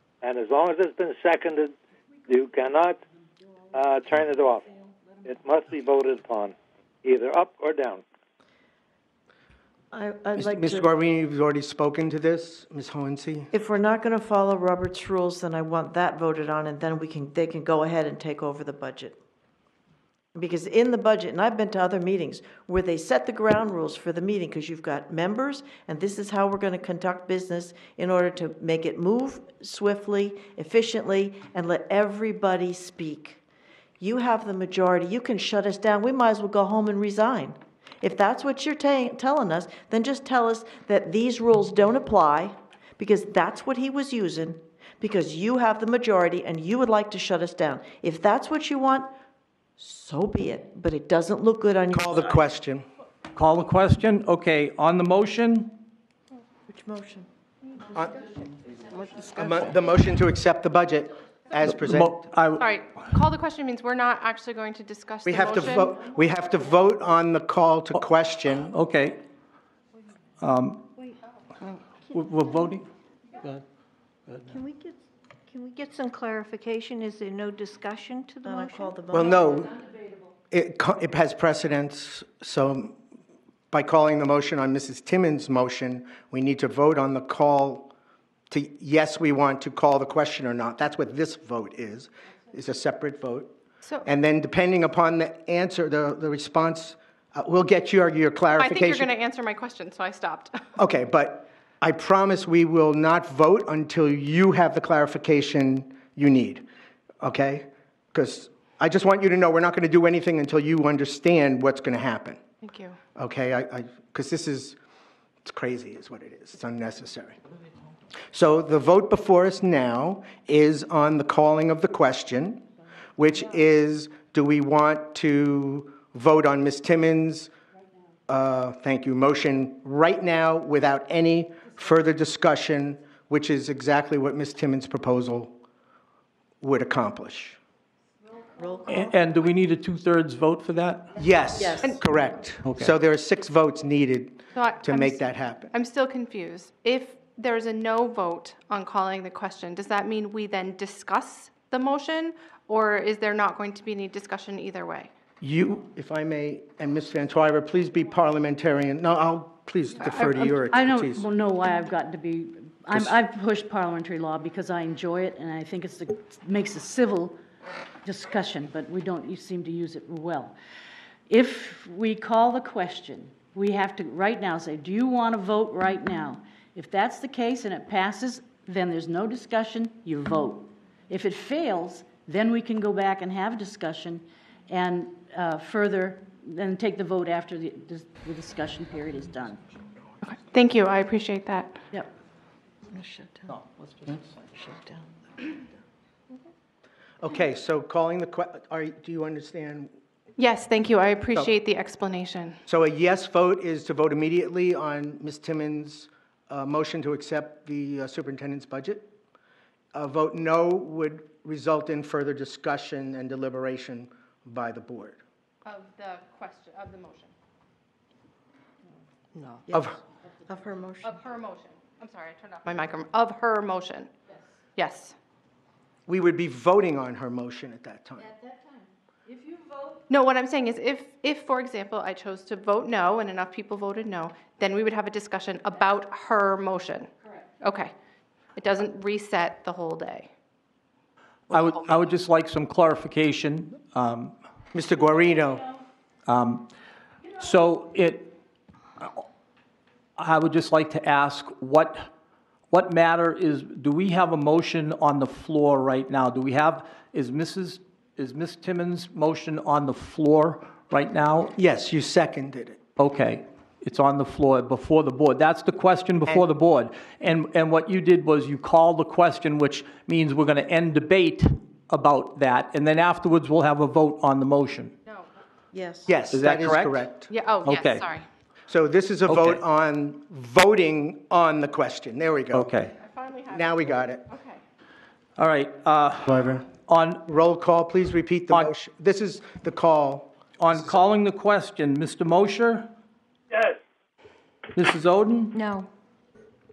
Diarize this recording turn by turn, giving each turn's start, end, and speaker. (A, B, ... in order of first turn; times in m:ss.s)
0:00.2-0:01.7 A
0:02.3-0:03.0 A
0:03.7-0:08.0 A
0:09.9-0:10.9 B
0:10.4-0:13.5 C
0:13.5-0:19.2 B
0:20.3-0:33.4 B
0:34.0-0:49.1 B
0:49.8-0:52.3 B
0:51.9-0:52.8 C
0:53.4-0:55.8 D
0:56.7-0:57.3 B
0:57.9-0:58.3 C
0:58.9-0:59.7 B
0:59.3-1:02.2 C
1:01.6-1:02.7 D
1:02.6-1:06.0 E
1:05.2-1:08.7 C
1:07.9-1:09.2 D
1:10.4-1:10.9 D
1:12.1-1:12.8 D
1:14.5-1:19.0 F
1:18.4-1:19.4 B
1:19.1-1:19.8 C
1:20.5-1:23.0 C
1:23.7-1:27.9 C
1:28.5-1:33.5 C
1:34.0-1:39.1 C
1:38.6-1:40.6 E
1:40.8-1:46.6 C
1:47.2-1:52.4 C
1:52.6-1:53.0 E
1:53.1-1:54.8 C
1:55.4-1:57.4 C
1:58.3-2:02.6 C
2:03.2-2:07.5 C
2:08.3-2:15.5 C
2:16.6-2:17.6 C
2:18.6-2:18.9 B
2:18.8-2:21.2 D
2:21.1-2:25.7 C
2:21.6-2:22.0 B
2:22.6-2:22.9 D
2:24.5-2:35.1 E
2:35.4-2:41.2 C
2:40.0-2:40.5 E
2:40.7-2:47.4 G
2:48.0-2:50.6 G
2:51.3-3:09.6 G
3:10.2-3:11.8 E
3:12.9-3:13.5 B
3:13.6-3:14.2 D
3:14.5-3:14.9 B
3:17.2-3:19.9 C
3:20.4-3:22.6 E
3:22.7-3:29.1 C
3:29.9-3:35.2 C
3:35.6-3:37.3 E
3:39.5-3:39.8 B
3:39.7-3:40.0 C
3:40.5-3:41.1 B
3:41.0-3:44.1 E
3:44.8-3:45.1 E
3:46.1-3:48.3 C
3:50.1-3:57.1 E
3:57.6-3:57.9 E
3:58.6-4:00.3 E
4:01.5-4:04.3 D
4:01.5-4:02.0 E
4:04.7-4:05.7 C
4:06.3-4:06.7 D
4:07.4-4:08.3 D
4:10.2-4:12.1 D
4:12.7-4:21.6 D
4:21.6-4:22.8 C
4:23.0-4:34.9 D
4:35.7-4:36.1 B
4:36.0-4:37.3 C
4:36.3-4:37.1 D
4:37.3-4:38.2 E
4:37.6-4:38.0 D
4:38.7-4:42.7 C
4:39.2-4:39.6 D
4:42.5-4:42.9 D
4:42.9-4:44.6 E
4:43.5-4:44.3 C
4:45.4-4:47.2 D
4:46.2-4:46.7 C
4:47.2-4:50.3 C
4:50.5-4:52.9 D
4:53.5-4:53.8 A
4:54.7-4:55.6 D
4:55.5-4:55.9 F